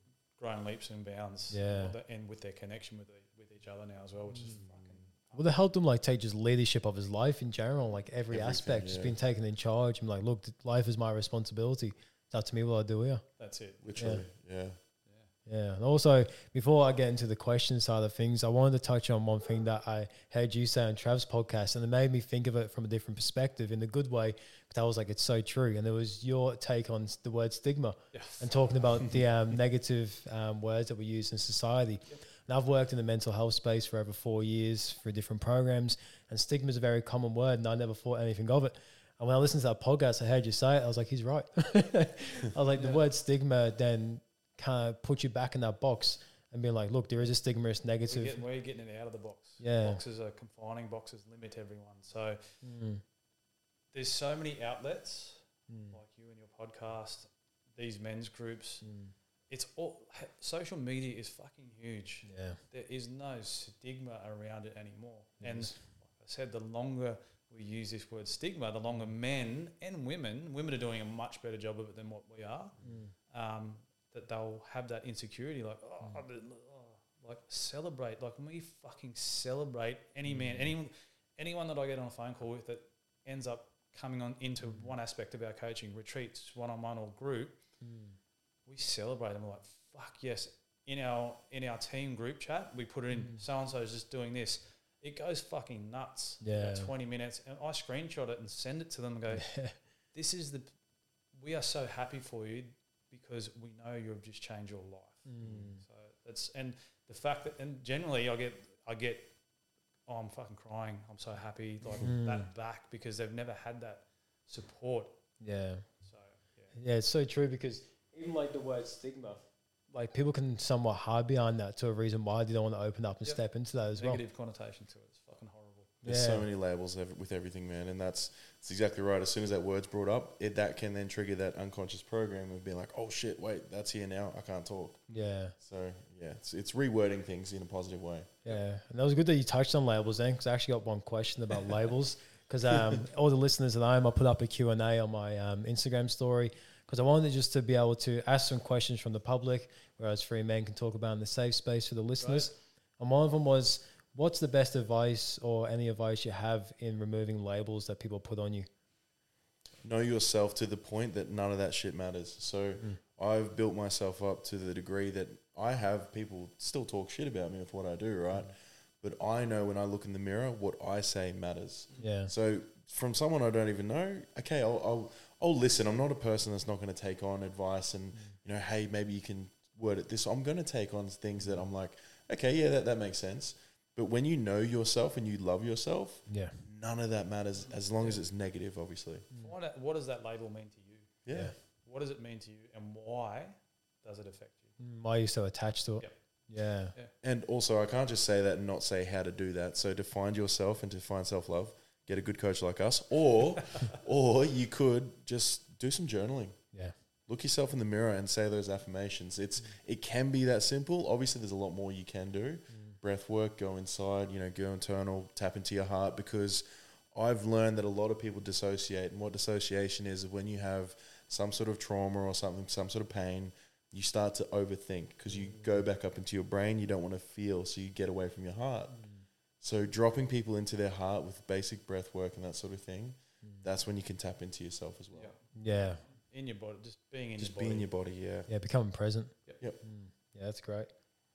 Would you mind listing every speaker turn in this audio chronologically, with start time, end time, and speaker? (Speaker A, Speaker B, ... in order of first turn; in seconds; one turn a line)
Speaker A: 0.4-5.5
Speaker B: 1.5-1.9
Speaker C: 4.5-4.9
Speaker B: 5.3-13.2
Speaker C: 8.3-9.2
Speaker A: 13.4-13.8
Speaker C: 13.8-14.8
Speaker B: 14.0-14.2
Speaker A: 15.1-15.3
Speaker B: 15.4-48.4
Speaker A: 28.1-28.5
Speaker A: 42.7-43.0
Speaker A: 48.0-52.5
Speaker B: 49.6-50.0
Speaker B: 52.6-53.0
Speaker A: 53.9-58.8
Speaker B: 55.7-56.0
Speaker B: 58.8-59.1
Speaker A: 59.5-72.7
Speaker B: 62.2-62.6
Speaker B: 65.4-65.8
Speaker B: 72.8-73.1
Speaker A: 73.3-87.6
Speaker B: 80.3-80.7
Speaker B: 84.6-84.9
Speaker B: 87.8-88.2
Speaker A: 88.7-99.5
Speaker B: 93.1-93.4
Speaker B: 96.4-96.9
Speaker B: 99.3-99.8
Speaker A: 100.1-100.7
Speaker A: 101.3-109.3
Speaker B: 105.2-105.8
Speaker C: 105.4-105.7
Speaker A: 110.1-115.2
Speaker B: 112.0-112.5
Speaker B: 115.4-115.8
Speaker A: 116.0-116.8
Speaker B: 116.7-124.2
Speaker A: 123.2-126.0
Speaker B: 126.0-126.5
Speaker C: 126.0-135.1
Speaker B: 135.1-135.5
Speaker C: 135.6-138.5
Speaker B: 138.4-158.7
Speaker C: 142.7-143.0
Speaker A: 152.2-152.5
Speaker C: 159.8-189.3
Speaker B: 172.0-172.3
Speaker B: 186.3-186.6
Speaker A: 189.4-191.1
Speaker C: 191.2-191.5
Speaker A: 191.8-194.8
Speaker B: 194.8-196.9
Speaker C: 197.2-206.6
Speaker C: 207.3-229.0
Speaker B: 212.7-213.0
Speaker B: 225.3-225.8
Speaker B: 228.9-229.2
Speaker C: 229.6-235.3
Speaker A: 235.1-235.5
Speaker B: 235.6-236.0
Speaker A: 236.0-237.9
Speaker C: 237.4-238.5
Speaker B: 238.5-240.9